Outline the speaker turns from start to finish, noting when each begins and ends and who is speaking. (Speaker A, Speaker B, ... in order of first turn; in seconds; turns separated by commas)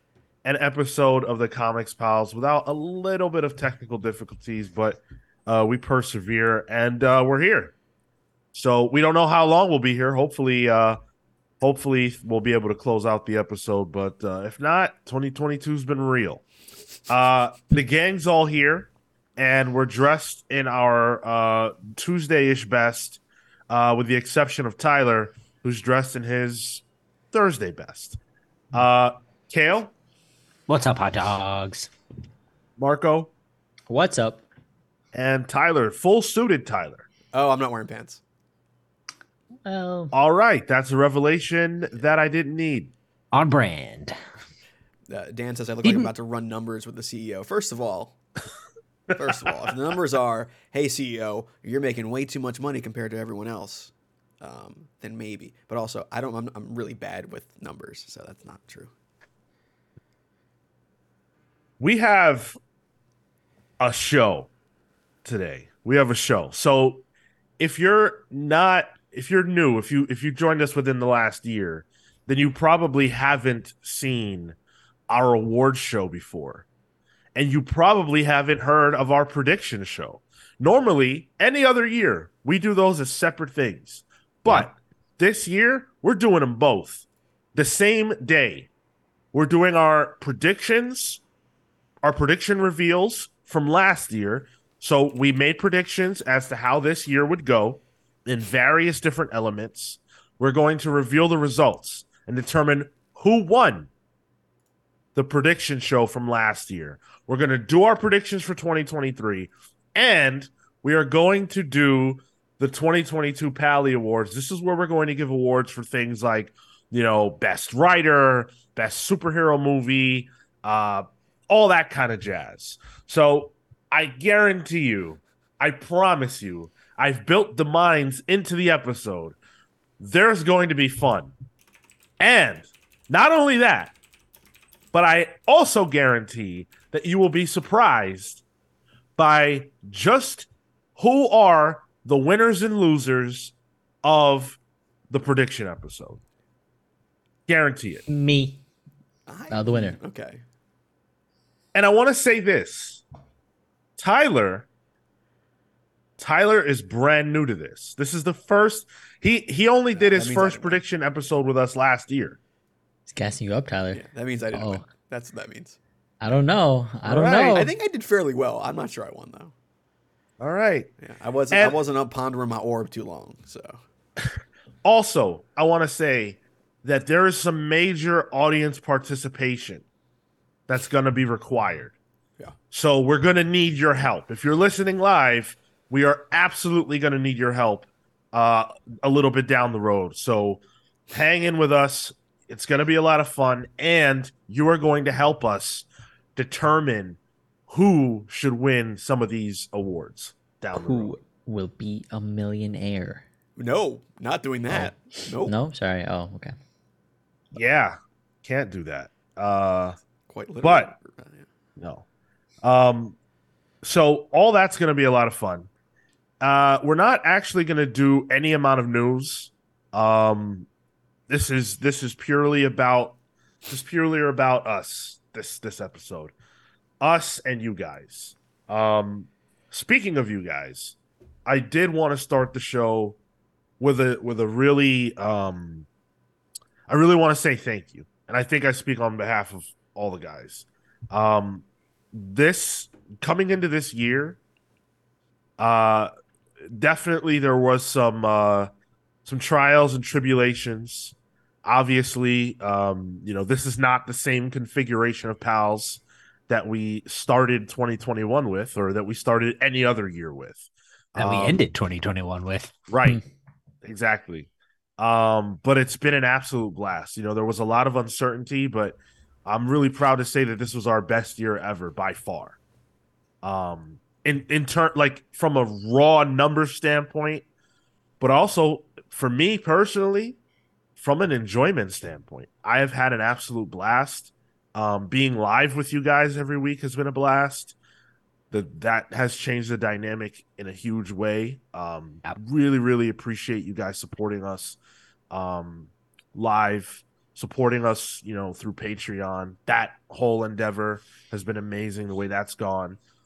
Speaker A: 0.4-7.7, Speaker A: 8.5-11.0, Speaker A: 11.6-16.4, Speaker A: 17.1-28.2, Speaker A: 28.7-29.9, Speaker B: 30.7-31.9, Speaker A: 32.8-33.3, Speaker C: 33.9-34.4, Speaker A: 35.1-37.1, Speaker D: 37.3-38.2, Speaker C: 39.6-40.1, Speaker A: 40.1-42.9, Speaker B: 43.3-44.1, Speaker D: 45.1-48.2, Speaker B: 45.8-46.1, Speaker D: 49.1-58.9, Speaker A: 61.8-62.6, Speaker A: 63.8-64.5, Speaker A: 65.2-67.0, Speaker A: 67.6-74.6, Speaker A: 75.1-76.7, Speaker A: 77.3-87.0, Speaker A: 87.5-88.7, Speaker A: 89.3-91.2, Speaker A: 92.0-103.9, Speaker A: 105.2-129.4, Speaker A: 130.0-131.3, Speaker A: 132.2-133.9, Speaker A: 134.9-138.4, Speaker A: 139.2-144.6, Speaker A: 145.1-146.2, Speaker A: 147.5-148.0, Speaker C: 148.1-148.6, Speaker D: 149.3-150.4, Speaker C: 149.5-150.0, Speaker A: 151.7-153.0, Speaker A: 154.0-154.7, Speaker A: 156.2-162.4, Speaker D: 159.9-160.8, Speaker C: 163.1-164.8, Speaker D: 163.9-165.8, Speaker C: 166.2-167.7, Speaker A: 167.0-167.7, Speaker D: 167.5-169.5, Speaker A: 170.4-170.9, Speaker D: 171.0-173.8, Speaker A: 171.5-171.8, Speaker A: 174.8-179.8, Speaker A: 180.7-181.9, Speaker A: 182.7-190.6, Speaker A: 191.1-201.1, Speaker C: 200.7-203.2, Speaker D: 203.6-205.5, Speaker C: 205.4-206.5, Speaker A: 207.5-210.0, Speaker D: 210.3-211.5, Speaker A: 210.6-210.9, Speaker A: 211.8-212.1, Speaker A: 212.6-213.2, Speaker A: 213.8-215.7, Speaker A: 216.4-220.7, Speaker A: 221.3-223.2, Speaker A: 223.7-226.3, Speaker A: 227.0-233.2, Speaker A: 233.8-235.9, Speaker A: 236.9-244.4, Speaker A: 245.6-246.1, Speaker A: 246.7-248.7, Speaker A: 249.2-261.6, Speaker B: 261.2-262.8, Speaker A: 262.9-263.2, Speaker A: 263.8-272.6, Speaker A: 273.4-277.4, Speaker A: 278.2-280.4, Speaker A: 281.0-287.8, Speaker A: 288.5-294.8, Speaker A: 295.3-303.0